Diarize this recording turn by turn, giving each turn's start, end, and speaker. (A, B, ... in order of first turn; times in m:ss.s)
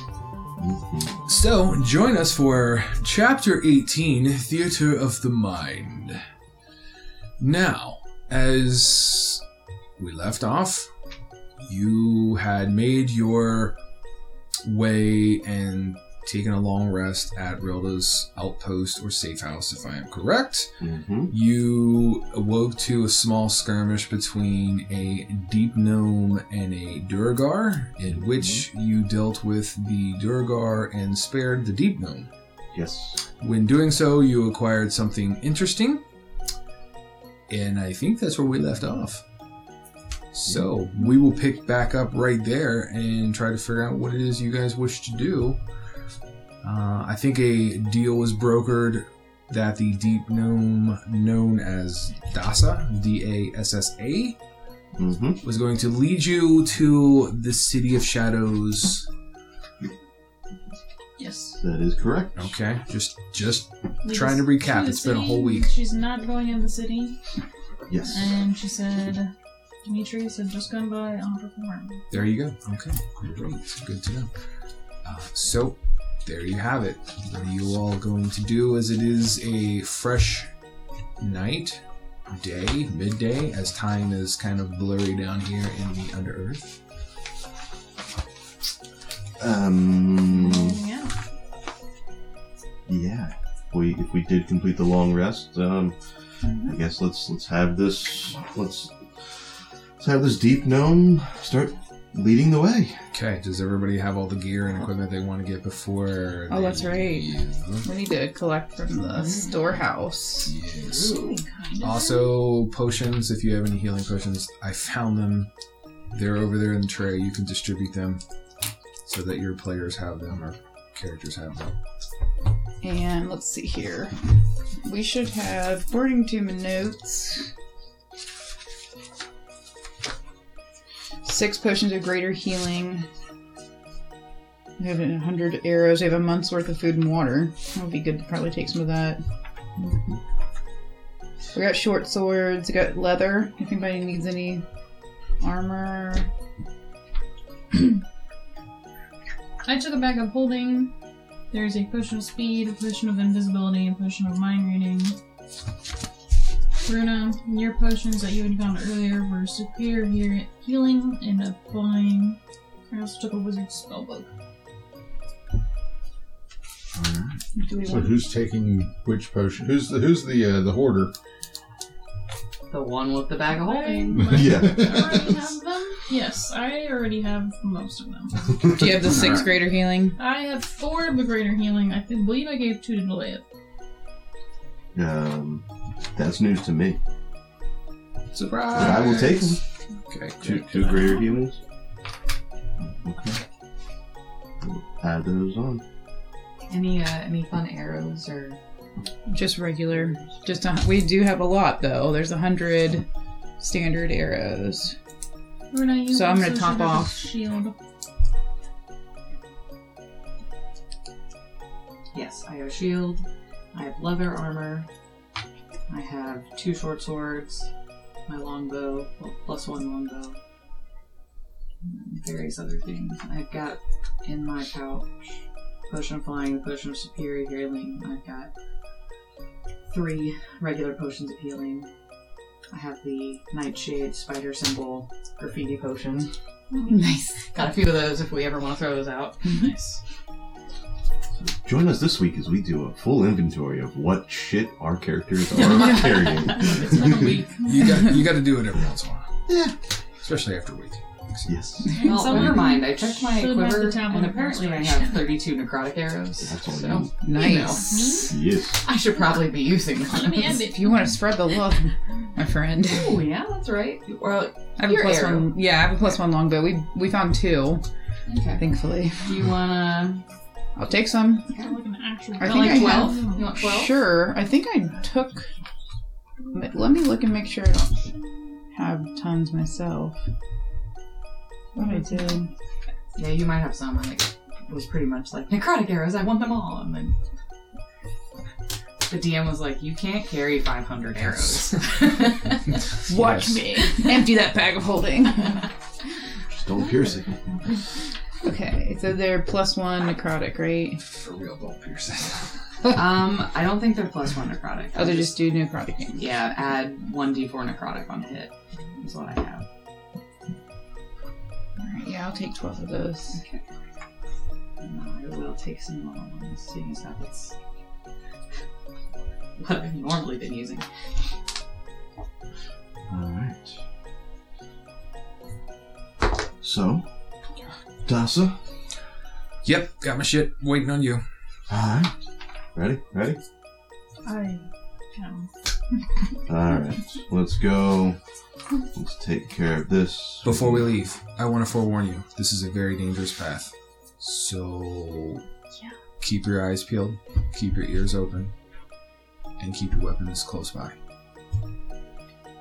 0:00.6-0:01.2 A
0:01.2-0:06.2 B
0:07.4-0:09.4 B
0:10.0-0:10.9 B
0:11.6-0:13.8 B
0:14.6-0:20.7 B
0:20.8-0:21.3 A
0:21.3-0:32.3 B
0:32.7-0:33.2 A
0:33.4-0:36.0 B
0:37.5-0:39.2 B
0:40.3-0:45.6 B
0:46.6-0:54.4 B
0:55.0-0:55.4 A
0:55.4-0:59.1 B
1:01.2-1:01.6 C
1:01.6-1:02.5 A
1:02.4-1:05.7 B
1:04.0-1:07.2 C
1:07.9-1:08.3 A
1:08.1-1:09.3 C
1:09.8-1:12.0 C
1:12.1-1:14.3 B
1:15.0-1:20.5 B
1:21.2-1:26.7 B
1:29.4-1:30.8 A
1:30.3-1:31.1 C
1:32.9-1:35.9 A
1:36.6-1:39.0 A
1:40.0-1:43.0 A
1:43.1-1:47.8 B
1:46.5-1:47.3 D
1:47.8-1:50.5 D
1:50.4-1:51.2 B
1:50.8-1:51.4 E
1:51.4-1:52.3 C
1:51.8-1:55.5 B
1:56.1-1:58.2 B
1:59.0-2:01.7 B
2:02.8-2:04.1 D
2:04.8-2:07.5 D
2:11.2-2:13.0 D
2:14.8-2:19.2 D
2:19.8-2:20.2 A
2:21.5-2:24.6 D
2:25.4-2:26.3 D
2:29.6-2:30.9 C
2:31.5-2:35.2 C
2:36.8-2:44.3 C
2:47.0-2:47.3 A
2:47.7-2:48.0 D
2:47.8-2:51.1 F
2:52.7-2:54.3 E
2:53.5-2:59.4 C
2:54.2-2:55.4 A
2:58.7-3:00.2 D
3:00.1-3:03.4 C
3:04.9-3:07.0 A
3:08.3-3:11.2 B
3:08.7-3:09.6 A
3:10.4-3:11.6 A
3:12.9-3:13.4 A
3:14.6-3:15.8 A
3:16.7-3:18.6 E
3:19.3-3:23.0 D
3:23.6-3:25.0 D
3:25.7-3:27.7 C
3:26.1-3:27.2 D
3:32.1-3:34.9 E
3:35.9-3:37.7 E
3:38.3-3:40.4 E
3:41.8-3:45.1 E
3:45.9-3:48.5 E
3:49.9-3:51.9 E
3:52.7-3:56.3 E
3:56.7-3:57.0 C
3:56.8-3:57.4 D
3:57.5-4:00.0 E
4:01.4-4:07.4 A
4:06.0-4:07.9 C
4:07.6-4:09.3 B
4:10.2-4:11.5 B
4:11.5-4:12.4 A
4:11.9-4:15.4 C
4:12.0-4:20.6 E
4:16.4-4:17.1 A
4:17.2-4:17.8 D
4:17.5-4:18.4 C
4:18.3-4:18.8 A
4:20.1-4:21.1 C
4:20.4-4:23.2 D
4:22.9-4:25.5 E
4:24.8-4:27.8 D
4:28.3-4:28.6 E
4:28.5-4:29.3 D
4:29.2-4:30.2 E
4:30.8-4:31.5 D
4:31.5-4:31.8 E
4:31.5-4:33.6 C
4:32.4-4:35.4 D
4:32.4-4:34.0 E
4:36.5-4:38.1 D
4:38.7-4:40.2 D
4:41.7-4:42.5 D
4:43.1-4:47.1 E
4:49.1-4:52.6 E
4:53.1-4:55.6 D
4:53.2-4:53.5 B
4:56.5-4:57.5 A
4:58.4-5:01.0 D
5:01.0-5:02.4 B
5:02.8-5:05.4 E
5:05.0-5:06.2 D
5:06.1-5:09.6 E
5:11.8-5:13.4 D
5:13.4-5:13.6 E
5:14.8-5:17.5 E
5:19.6-5:20.8 E
5:23.1-5:23.7 A
5:26.6-5:27.0 A
5:28.0-5:28.6 A
5:29.6-5:31.2 B
5:31.7-5:32.1 A
5:32.7-5:33.4 A
5:34.2-5:35.5 C
5:36.4-5:38.2 A
5:38.9-5:40.9 A
5:40.4-5:45.4 B
5:46.2-5:48.5 B
5:49.6-5:50.9 B